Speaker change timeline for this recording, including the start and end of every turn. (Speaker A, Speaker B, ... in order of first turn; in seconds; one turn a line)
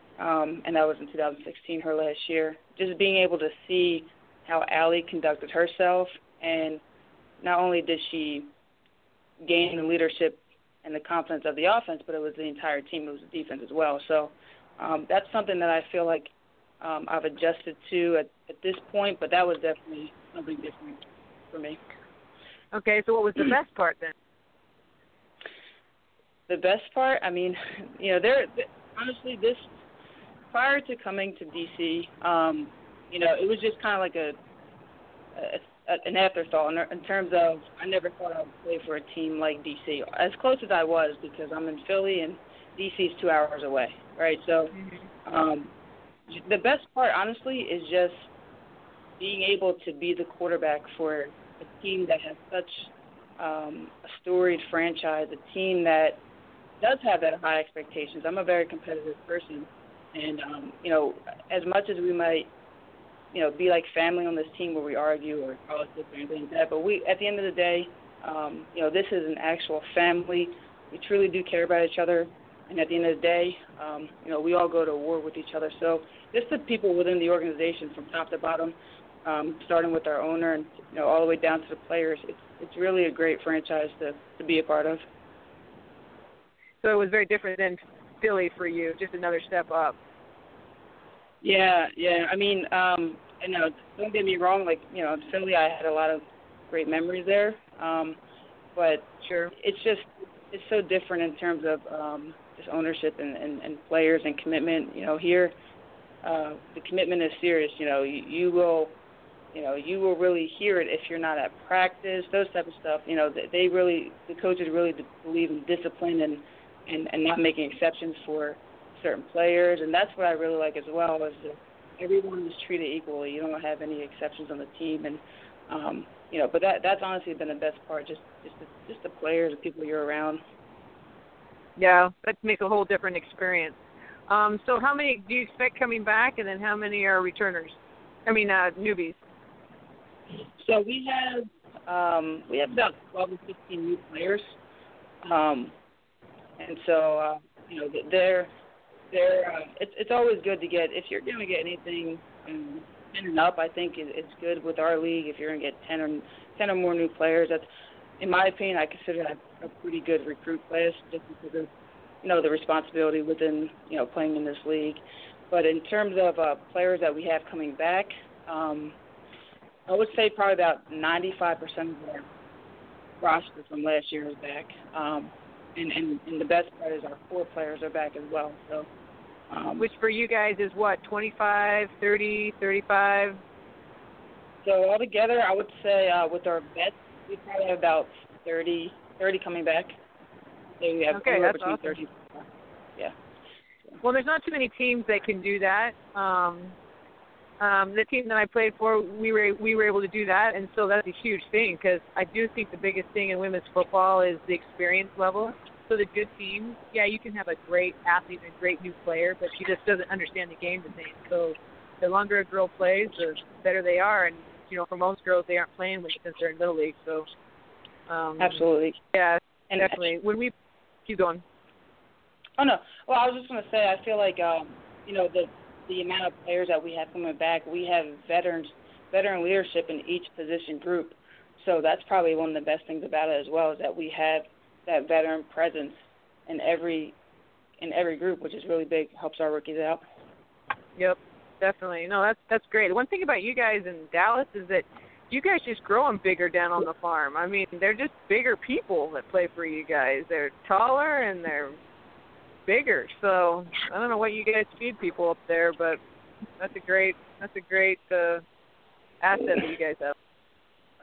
Speaker A: 0.2-6.8
Speaker A: 7.4-8.5
Speaker A: 9.4-21.0
Speaker A: 21.5-21.8
Speaker B: 22.7-24.1
Speaker A: 26.5-29.7
Speaker A: 30.5-34.4
Speaker A: 35.3-45.7
Speaker A: 46.3-48.3
Speaker A: 49.2-56.2
Speaker A: 56.8-62.5
Speaker A: 63.3-85.0
Speaker B: 86.8-90.0
Speaker A: 91.4-98.2
Speaker A: 98.7-105.5
Speaker B: 99.2-99.5
Speaker A: 106.2-108.9
Speaker A: 109.5-130.4
Speaker B: 131.8-139.2
Speaker A: 140.6-144.6
Speaker A: 145.2-145.7
Speaker A: 146.6-148.5
Speaker A: 149.1-157.7
Speaker A: 158.2-161.7
Speaker A: 162.2-168.9
Speaker A: 169.9-172.2
Speaker A: 173.2-178.9
Speaker A: 179.5-179.9
Speaker B: 179.8-183.4
Speaker A: 184.6-189.9
Speaker A: 190.8-193.1
Speaker B: 191.1-192.0
Speaker B: 194.0-196.7
Speaker B: 197.6-217.3
Speaker B: 218.1-218.6
Speaker A: 218.4-219.0
Speaker B: 219.1-220.5
Speaker A: 219.7-220.0
Speaker B: 221.1-221.4
Speaker A: 222.6-237.2
Speaker A: 237.8-240.0
Speaker B: 241.0-251.8
Speaker B: 252.7-256.0
Speaker B: 256.6-258.4
Speaker B: 259.2-260.1